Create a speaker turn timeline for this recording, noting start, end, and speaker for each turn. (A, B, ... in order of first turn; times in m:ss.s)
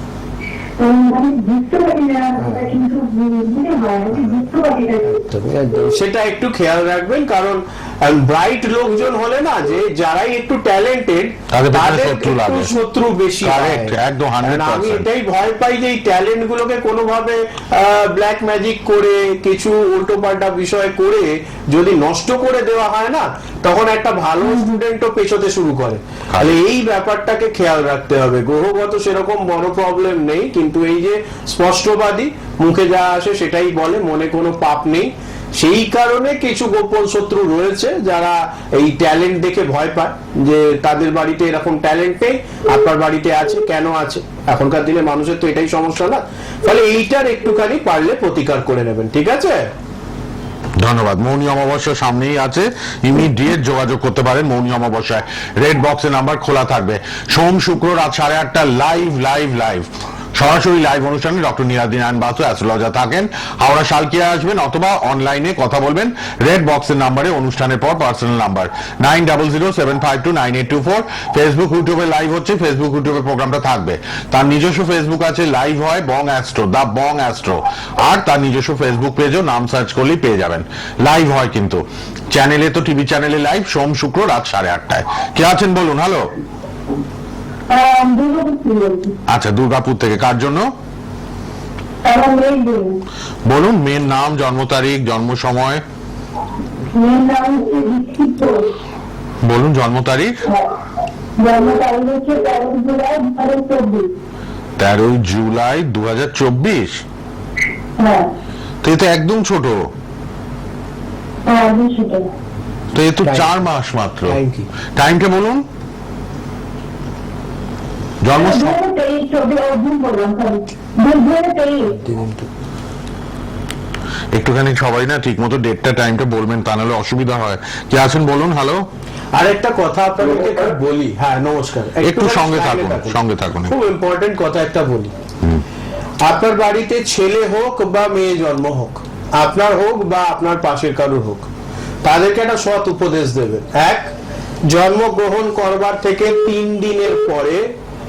0:00.8-0:05.2 A
0:02.4-0:02.8 B
0:04.1-0:04.4 B
0:05.0-0:49.7 B
0:11.5-0:12.7 C
0:13.4-0:15.0 C
0:50.8-1:26.3 C
1:27.7-1:29.2 A
1:29.3-1:30.7 C
1:32.0-1:33.0 A
1:33.4-1:35.8 C
1:36.9-1:38.7 A
1:39.4-1:40.4 C
1:41.4-1:44.1 A
1:44.8-1:47.0 C
1:48.0-1:48.3 A
1:48.8-1:49.9 C
1:51.4-1:52.3 A
1:52.9-1:54.4 C
1:53.2-1:53.5 B
1:54.3-1:54.7 B
1:55.0-1:55.6 C
1:58.2-1:58.8 C
1:58.3-2:02.0 A
2:01.9-2:02.5 B
2:04.3-2:08.8 C
2:09.3-2:15.1 B
2:12.0-2:13.7 C
2:16.2-2:21.5 B
2:22.0-2:24.1 B
2:24.7-2:27.6 B